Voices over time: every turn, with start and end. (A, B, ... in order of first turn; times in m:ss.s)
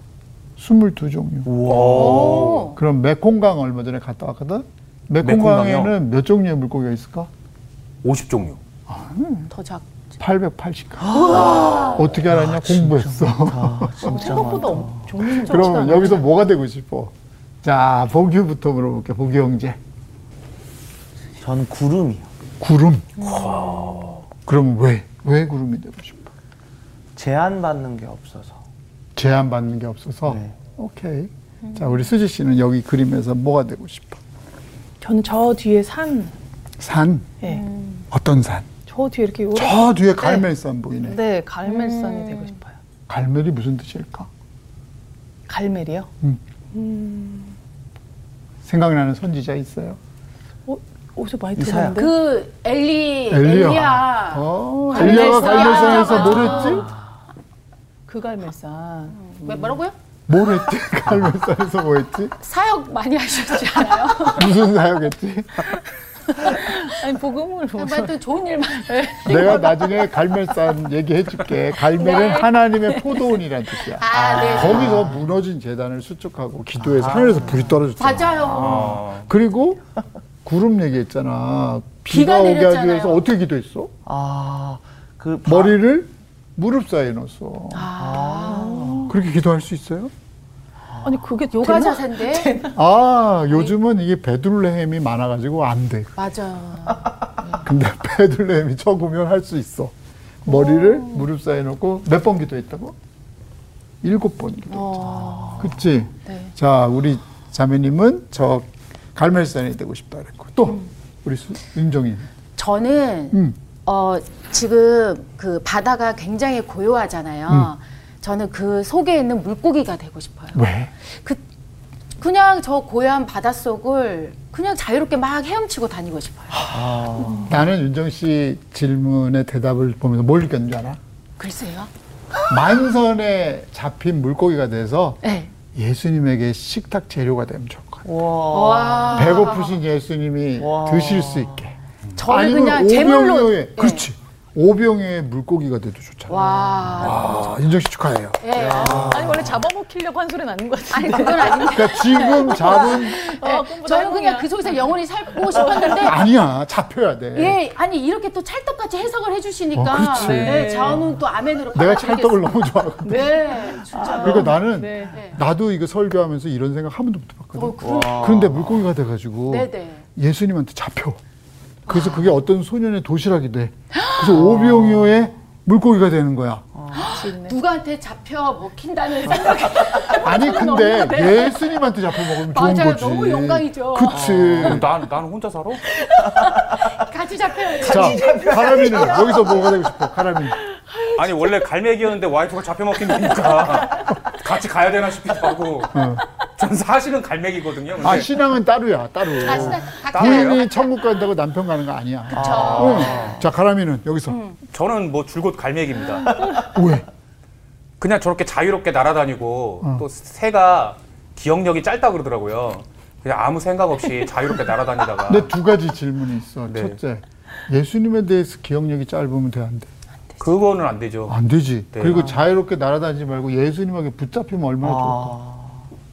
0:00.6-0:07.3 A
0:01.5-0:02.7 B
0:01.9-0:02.8 C
0:05.2-0:05.9 B
0:08.0-0:08.6 B
0:08.9-0:09.5 A
0:09.5-0:09.9 C
0:10.2-0:14.7 A
0:11.0-0:15.3 D
0:11.1-0:12.1 C
0:14.0-0:16.2 E
0:15.3-0:19.8 A
0:21.4-0:22.3 D
0:22.6-0:23.1 A
0:23.2-0:24.2 B
0:23.2-0:23.5 C
0:24.4-0:26.3 A
0:27.2-0:28.6 D
0:29.2-0:34.2 A
0:30.2-0:30.6 D
0:31.6-0:31.9 C
0:35.0-0:36.3 E
0:36.8-0:37.4 A
0:37.4-0:37.7 E
0:37.4-0:38.0 C
0:38.1-0:38.7 A
0:38.9-0:40.5 E
0:39.5-0:41.2 A
0:41.0-0:42.8 E
0:41.7-0:42.5 C
0:43.1-0:44.3 A
0:45.5-0:46.1 E
0:46.7-0:47.6 E
0:48.6-0:50.0 A
0:50.6-0:52.1 E
0:51.6-0:52.0 D
0:51.9-0:56.9 C
0:53.3-0:56.9 A
0:54.9-0:56.9 E
0:58.1-0:59.8 E
0:59.2-0:59.9 C
1:00.3-1:02.3 A
1:02.4-1:04.6 C
1:04.3-1:05.8 A
1:06.4-1:06.9 C
1:06.5-1:08.2 E
1:07.8-1:09.7 C
1:08.8-1:10.1 E
1:09.2-1:19.8 A
1:12.0-1:12.5 C
1:14.0-1:15.1 C
1:14.1-1:15.3 D
1:16.8-1:17.9 D
1:18.0-1:18.9 C
1:18.6-1:19.3 B
1:20.4-1:23.9 A
1:22.1-1:23.2 C
1:24.0-1:25.8 D
1:25.4-1:27.9 A
1:27.7-1:28.9 C
1:27.9-1:29.1 D
1:28.5-1:29.1 E
1:29.1-1:30.1 A
1:30.8-1:31.2 D
1:31.0-1:32.7 E
1:31.6-1:32.6 C
1:32.7-1:36.3 A
1:36.2-1:37.1 C
1:37.6-1:42.9 A
1:44.0-1:52.3 A
1:44.7-1:45.6 C
1:45.0-1:45.7 D
1:52.6-2:01.4 C
2:00.5-2:00.9 A
2:02.2-2:06.7 C
2:06.7-2:07.6 D
2:07.5-2:11.0 A
2:11.4-2:11.9 C
2:12.5-2:15.2 A
2:15.2-2:15.5 C
2:15.7-2:18.0 A
2:18.0-2:19.4 D
2:18.5-2:19.8 C
2:19.1-2:21.7 A
2:20.6-2:21.7 D
2:22.2-2:24.1 C
2:22.2-2:28.4 A
2:26.3-2:27.5 C
2:28.4-2:29.3 C
2:28.5-2:29.6 D
2:29.0-2:34.8 E
2:30.9-2:36.3 C
2:31.6-2:33.3 A
2:35.5-2:36.0 E
2:36.0-2:37.6 A
2:37.3-2:45.4 C
2:39.7-2:40.6 A
2:40.2-2:41.2 E
2:41.7-2:43.3 A
2:43.0-2:43.4 E
2:44.1-2:45.2 E
2:44.2-2:51.2 A
2:47.6-2:48.3 C
2:47.8-2:48.9 D
2:49.5-2:50.0 C
2:51.9-2:56.6 A
2:54.3-2:55.1 D
2:56.7-2:57.2 D
2:56.9-3:01.6 C
2:57.1-2:57.6 E
2:59.9-3:00.2 D
3:00.2-3:04.9 A
3:02.1-3:04.2 C
3:04.1-3:04.8 D
3:04.2-3:05.8 B
3:06.7-3:08.4 C
3:07.8-3:10.6 A
3:07.9-3:09.4 D
3:10.8-3:11.1 E
3:11.1-3:18.3 B
3:15.9-3:16.2 A
3:18.0-3:24.4 A
3:19.4-3:20.9 C
3:19.5-3:19.8 D
3:20.0-3:20.7 B
3:22.3-3:23.4 C
3:22.3-3:23.4 D
3:22.5-3:23.2 B
3:24.3-3:24.6 C
3:24.7-3:26.3 B
3:26.7-3:27.0 A
3:28.0-3:35.5 B
3:35.3-3:39.9 A
3:36.7-3:37.0 B
3:40.4-3:41.4 B
3:41.3-3:45.4 A
3:41.9-3:42.3 B
3:44.8-3:45.8 D